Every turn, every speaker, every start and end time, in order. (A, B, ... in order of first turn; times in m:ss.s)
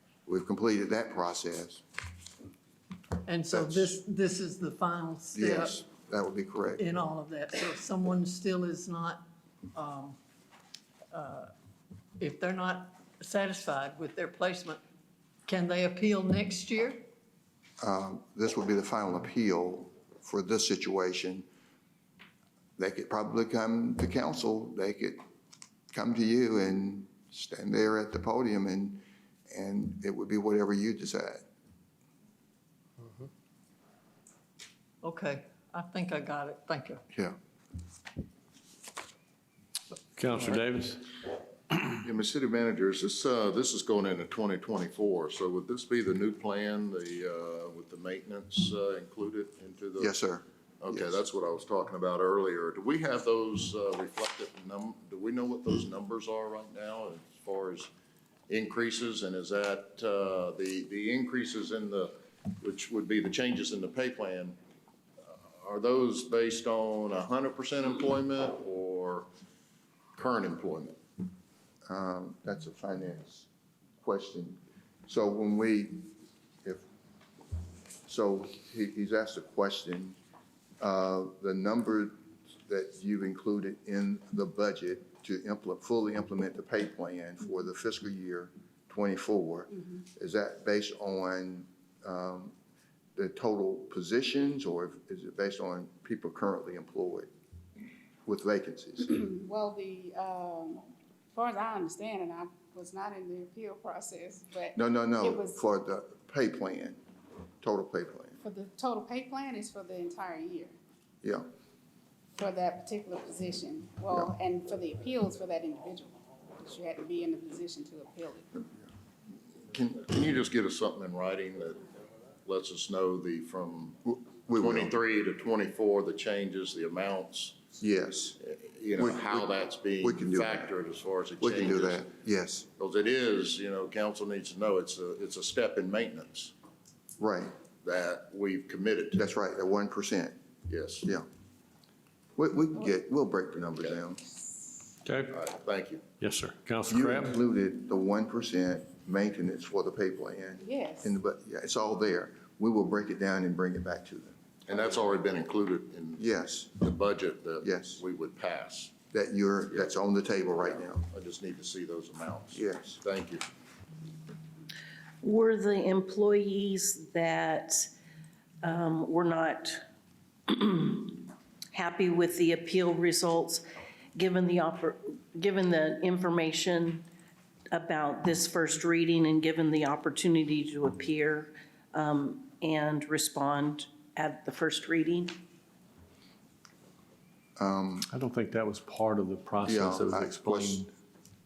0:00.3-0:01.8 A
0:03.2-0:05.8 B
0:03.5-0:04.0 A
0:05.3-0:06.8 A
0:06.8-0:10.2 B
0:11.1-0:11.5 B
0:12.2-0:14.8 B
0:15.5-0:17.0 B
0:17.8-0:21.4 A
0:22.8-0:25.2 A
0:25.9-0:31.4 A
0:35.0-0:37.0 B
0:37.1-0:37.4 A
0:40.2-0:41.1 C
0:42.0-0:50.1 D
0:50.0-0:51.1 A
0:50.8-0:57.9 D
0:58.5-1:04.6 D
1:05.2-1:09.3 D
1:10.1-1:11.0 D
1:11.9-1:13.5 A
1:14.0-1:16.1 A
1:18.0-1:20.2 A
1:20.8-1:32.5 A
1:33.2-1:37.3 A
1:38.2-1:39.2 A
1:39.2-1:45.6 E
1:44.7-1:47.0 A
1:47.6-1:48.4 A
1:48.4-1:50.7 E
1:52.4-1:58.5 E
1:59.7-2:00.0 A
2:00.0-2:01.8 D
2:02.4-2:04.0 D
2:04.0-2:04.9 A
2:04.5-2:07.6 D
2:07.8-2:08.4 A
2:08.4-2:12.1 D
2:09.0-2:09.5 A
2:10.0-2:10.7 A
2:11.4-2:12.7 A
2:12.8-2:16.5 D
2:17.2-2:17.5 A
2:17.8-2:19.2 D
2:19.2-2:20.4 A
2:20.7-2:21.1 D
2:22.4-2:24.2 A
2:25.0-2:25.3 C
2:25.3-2:26.0 D
2:26.2-2:27.4 C
2:26.9-2:34.4 A
2:30.6-2:31.1 E
2:34.7-2:36.2 D
2:36.2-2:36.8 A
2:36.8-2:38.9 D
2:37.6-2:38.0 A
2:39.1-2:41.0 A
2:40.6-2:43.4 D
2:42.5-2:43.0 A
2:45.2-2:47.9 F
2:48.6-2:49.8 F
2:50.5-2:53.6 F
2:54.2-2:57.0 F
2:57.7-3:05.3 F
3:07.6-3:08.1 A
3:08.1-3:10.9 C
3:09.6-3:10.8 A